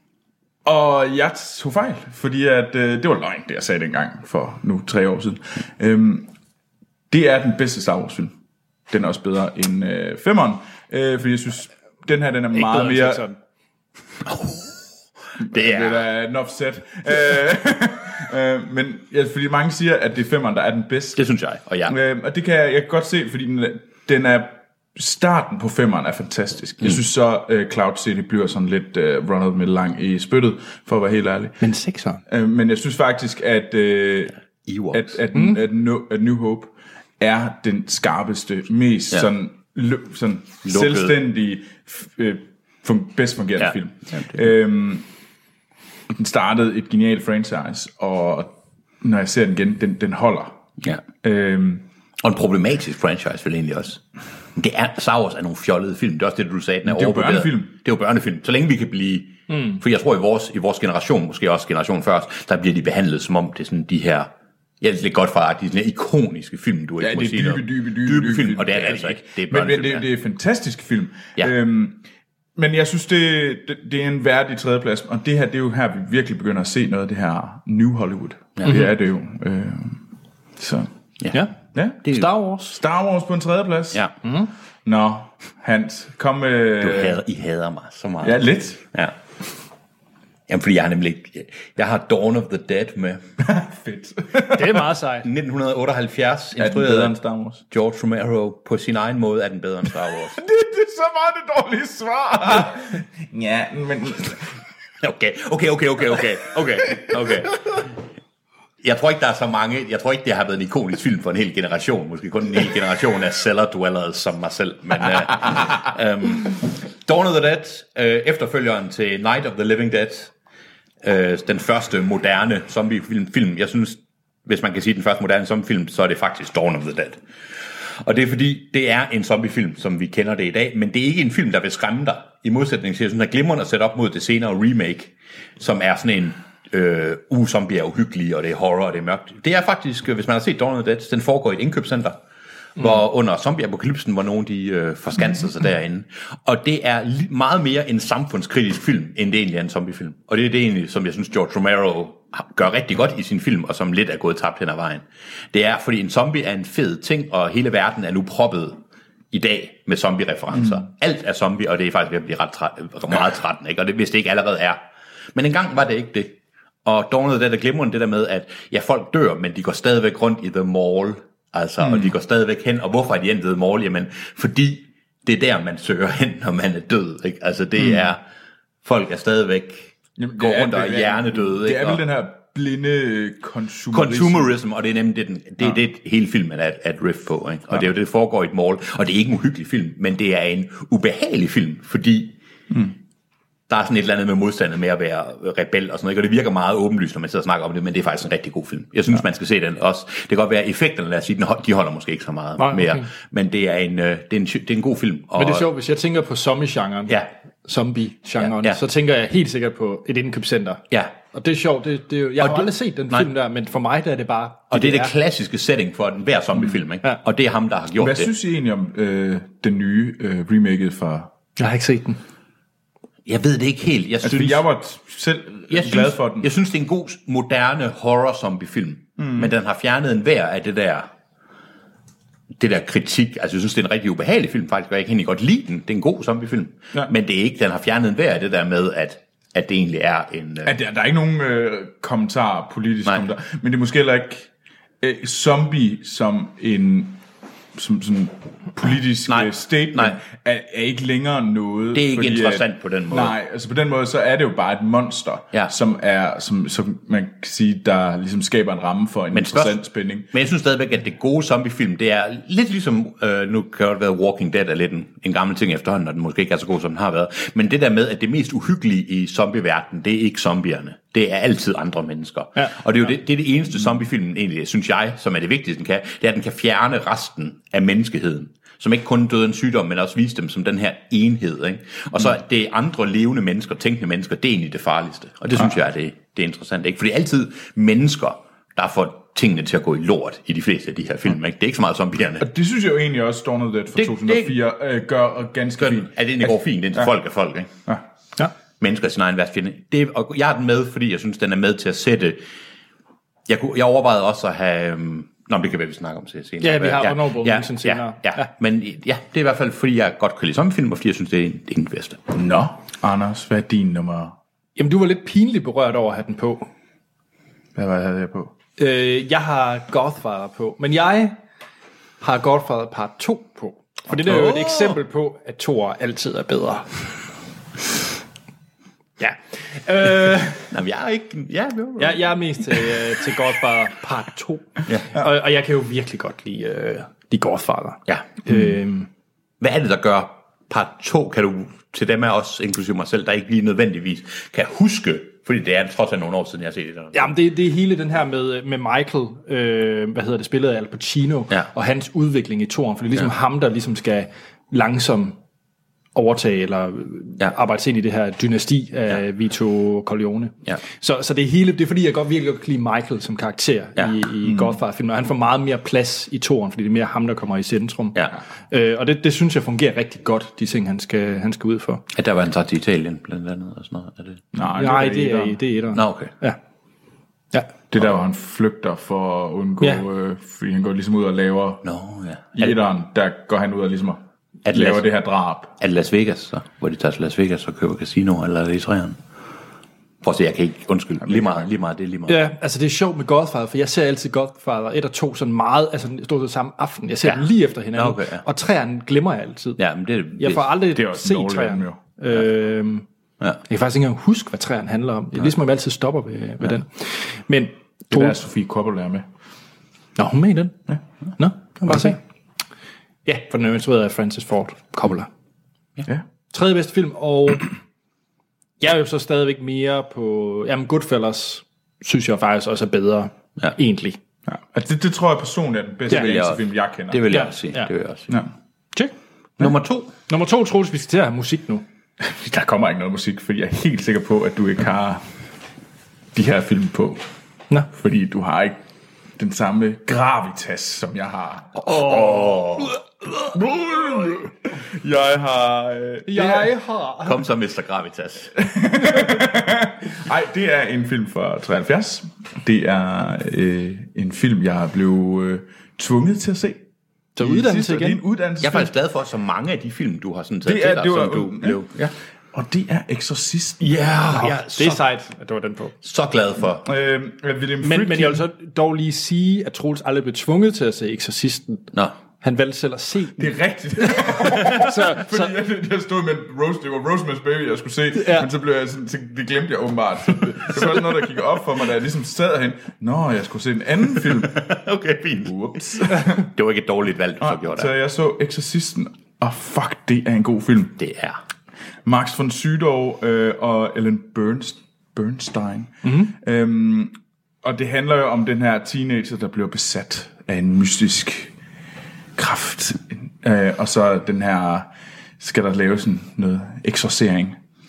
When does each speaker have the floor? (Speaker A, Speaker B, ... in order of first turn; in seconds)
Speaker A: 0.6-6.3, 7.1-8.3, 8.9-13.2, 15.4-21.2, 21.9-31.6, 32.3-34.3, 34.9-45.1, 46.1-50.6, 51.2-51.9, 56.8-57.7, 67.0-72.0, 72.5-80.0, 80.6-80.9, 81.7-82.1, 82.7-84.0, 84.8-87.2, 88.2-88.8, 93.4-94.8, 96.6-97.6, 100.3-104.5, 171.8-172.1, 177.8-178.1, 180.2-184.6, 192.7-192.9, 217.9-221.3, 224.2-226.5, 229.2-229.5, 240.6-244.5, 245.0-247.2, 247.7-260.3, 292.4-297.1, 312.3-314.4, 317.7-318.5, 364.4-364.8, 374.5-375.6, 377.9-381.8, 382.5-385.7, 391.2-391.7, 400.9-402.0, 408.1-409.3, 424.5-427.3, 432.2-435.2, 436.3-437.3, 437.9-438.8, 439.4-446.7, 448.6-456.8, 457.4-458.9, 460.6-461.8, 462.5-463.9, 466.8-468.4, 473.4-484.7, 485.4-486.4, 487.4-491.0, 492.0-501.5, 502.4-507.6
Speaker B: 12.5-13.4, 31.6-32.2, 35.3-35.6, 59.5-59.8, 82.1-82.8, 84.2-84.5, 94.5-95.3, 202.6-203.1, 205.3-215.1, 221.6-222.2, 306.6-308.5, 314.8-316.7, 318.8-321.4, 322.2-326.9, 329.2-330.6, 332.0-339.1, 347.1-355.4, 356.1-368.2, 368.7-372.0, 374.8-376.6, 392.3-399.8, 400.4-403.0, 403.7-408.4, 410.2-410.8, 411.4-412.2, 413.2-415.3, 416.5-417.7, 418.8-424.2, 427.3-427.9, 430.3-431.8, 446.3-447.4, 457.4-458.2, 464.3-465.9, 467.8-473.5, 474.0-475.5, 478.1-478.5, 496.0-496.3
Speaker C: 14.2-16.1, 21.1-21.9, 34.7-35.2, 40.6-41.2, 43.6-44.4, 52.2-54.0, 54.5-64.3, 64.8-70.1, 78.6-78.8, 82.0-82.3, 86.8-89.1, 90.5-93.2, 95.2-97.2, 97.7-100.4, 105.0-107.9, 108.8-120.3, 121.0-127.2, 128.0-142.2, 142.8-158.8, 159.3-164.8, 165.3-178.2, 178.8-182.0, 183.9-192.3, 193.7-205.7, 208.4-208.8, 212.4-213.3, 214.7-218.3, 223.3-224.6, 225.7-231.1, 232.6-240.8, 249.3-250.2, 251.9-253.3, 259.3-292.5, 293.9-294.6, 295.8-297.7, 298.8-302.4, 303.5-312.2, 324.1-325.0, 330.7-332.9, 334.9-335.1, 338.1-338.4, 339.6-347.4, 372.1-374.4, 375.9-376.3, 381.8-382.7, 384.6-385.1, 385.8-389.2, 390.2-392.5, 397.2-398.4, 399.8-400.7, 426.1-428.3, 429.6-430.1, 441.8-442.9, 447.2-448.6, 458.6-462.1, 463.8-465.0, 466.0-466.9, 484.2-487.9, 491.0-491.4